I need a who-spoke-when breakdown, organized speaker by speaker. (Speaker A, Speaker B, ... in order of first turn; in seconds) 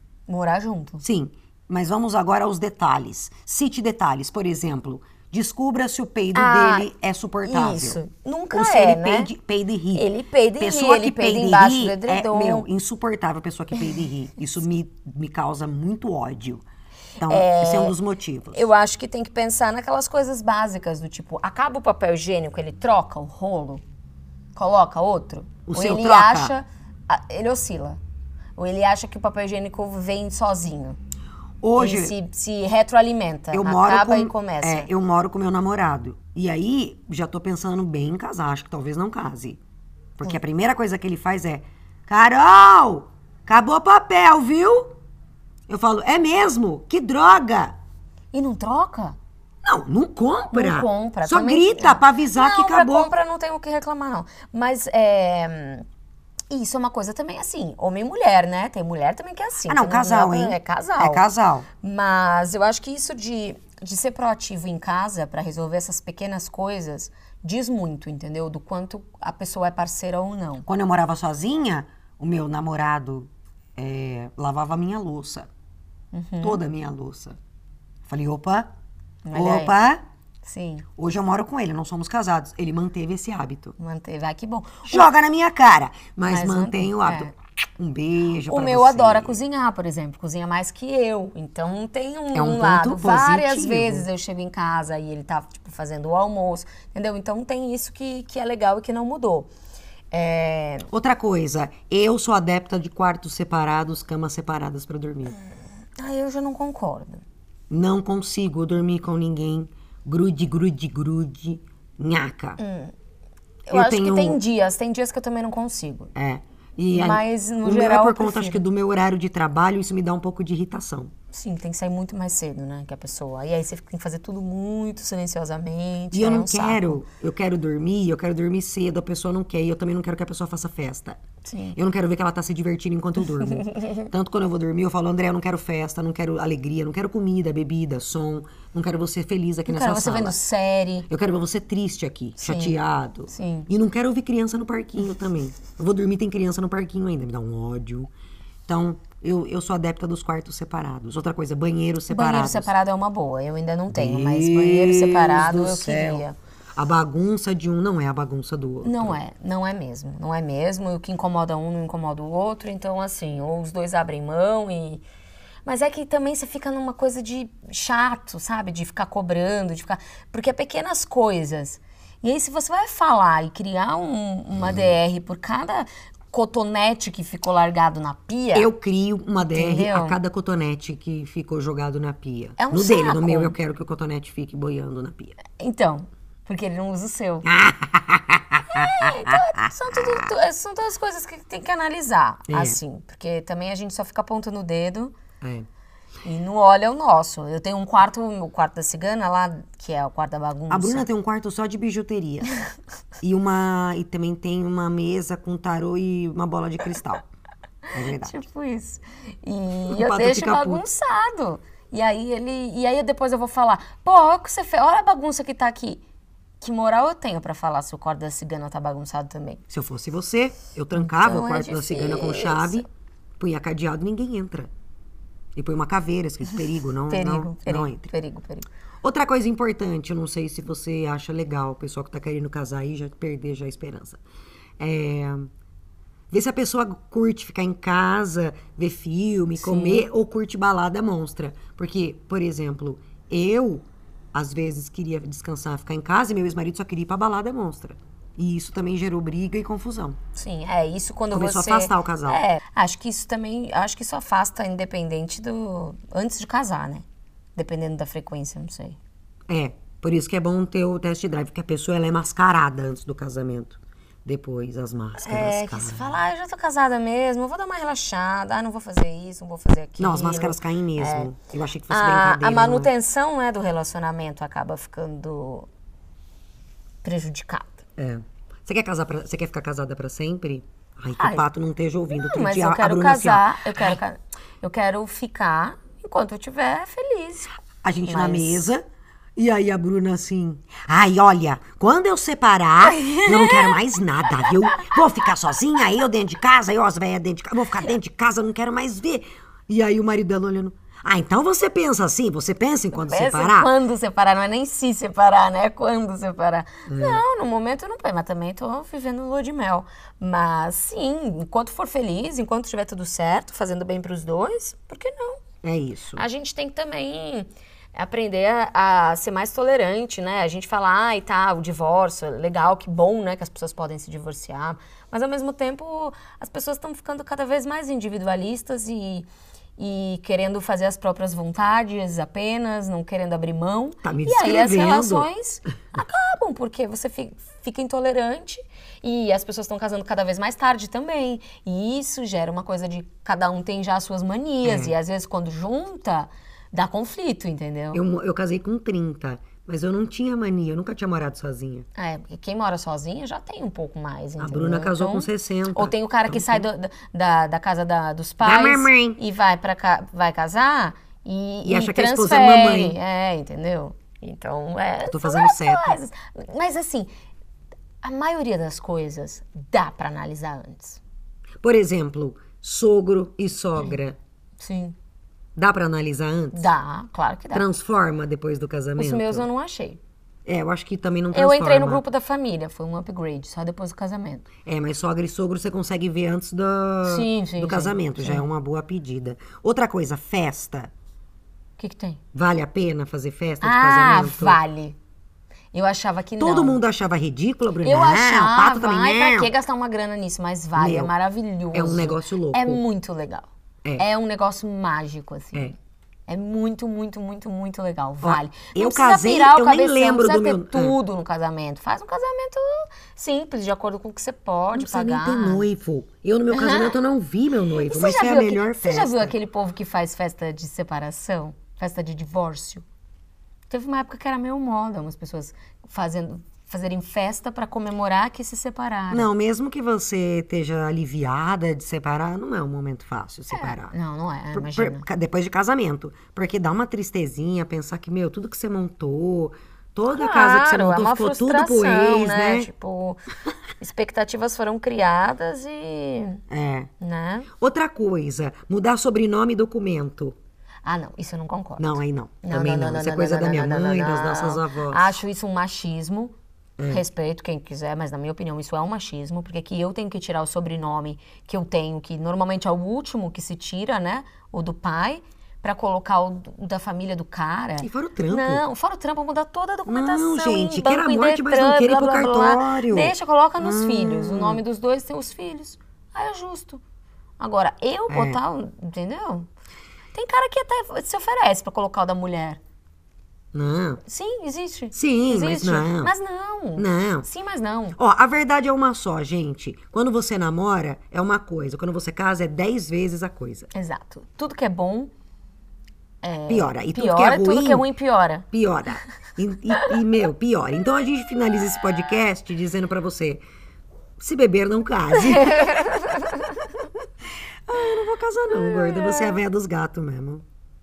Speaker A: 0.3-1.0, 6.3-6.9, 7.4-9.3, 9.9-12.7, 17.2-18.0, 18.5-23.8, 24.5-28.0, 28.6-31.0, 31.8-34.9, 48.3-49.2, 50.5-55.8, 56.5-61.2, 61.8-70.7, 76.1-76.6, 79.2-79.8, 80.4-80.8, 83.8-85.1, 86.3-87.3, 88.5-99.5, 100.1-100.9, 106.0-107.2, 112.6-112.9, 113.7-116.1, 116.9-118.6, 121.3-127.0, 131.4-131.8, 139.7-141.1, 142.4-143.7, 152.1-156.3, 158.8-165.0, 165.6-178.7, 179.5-180.2, 182.6-183.6, 185.5-187.5, 188.7-195.1, 196.2-201.1, 208.2-216.0, 216.6-219.6, 220.9-222.8, 227.1-228.7, 239.6-240.1, 250.3-259.0, 265.2-271.4, 271.9-275.7, 277.0-277.8, 281.2-281.4, 282.1-287.5, 288.0-288.7, 292.8-293.8, 294.3-295.0, 302.9-315.4, 316.1-348.0, 351.9-367.1, 368.0-371.0, 374.6-374.9, 376.5-377.7, 379.0-380.0, 381.3-384.5, 387.0-388.4, 391.8-392.2, 393.6-395.0, 395.7-396.8, 397.8-405.7, 406.3-415.7, 416.5-417.0, 417.8-422.8, 423.7-429.3, 433.5-435.0, 440.1-443.2, 443.8-446.4, 447.0-447.5, 450.8-456.3, 456.8-476.8, 477.4-479.5, 480.1-482.6, 484.0-488.0, 493.7-495.1, 496.2-498.4, 505.1-506.6, 508.5-509.4
Speaker B: 1.0-8.0, 8.5-10.1, 10.6-16.6, 17.2-18.7, 25.7-26.5, 31.6-32.1, 33.5-39.6, 40.2-44.9, 45.7-47.7, 49.6-53.1, 59.7-61.7, 70.7-75.5, 76.4-77.4, 78.1-78.7, 79.3-80.0, 81.0-83.8, 84.9-89.4, 92.3-94.1, 100.9-105.4, 107.7-112.6, 113.7-114.4, 116.1-121.1, 126.1-131.2, 131.7-140.4, 141.1-148.1, 148.7-152.7, 153.9-156.2, 156.8-159.2, 178.5-185.4, 187.4-189.4, 192.5-192.8, 195.4-195.7, 200.7-202.5, 203.2-207.2, 207.9-208.4, 209.9-210.8, 219.7-222.9, 223.4-224.7, 225.5-228.1, 229.0-234.2, 234.8-235.5, 236.3-250.2, 251.3-252.4, 259.5-266.2, 270.0-272.9, 278.0-284.0, 287.8-288.8, 289.4-303.7, 306.9-307.2, 315.6-316.2, 334.0-335.3, 344.6-344.9, 347.9-351.9, 354.4-356.7, 358.4-359.2, 361.6-363.0, 365.1-366.0, 371.6-374.1, 375.5-376.7, 377.5-379.5, 380.4-382.0, 384.6-390.9, 392.3-394.6, 396.4-399.5, 400.8-401.1, 401.7-402.8, 408.2-411.0, 414.7-419.3, 429.1-433.9, 434.5-442.7, 446.5-446.9, 447.6-450.4, 451.8-455.2, 456.8-457.0, 467.8-468.6, 469.9-474.6, 478.1-478.4, 483.5-484.0, 484.9-486.1, 486.8-487.3, 487.9-493.7, 496.5-497.9, 498.5-503.4, 504.2-505.8, 507.7-510.4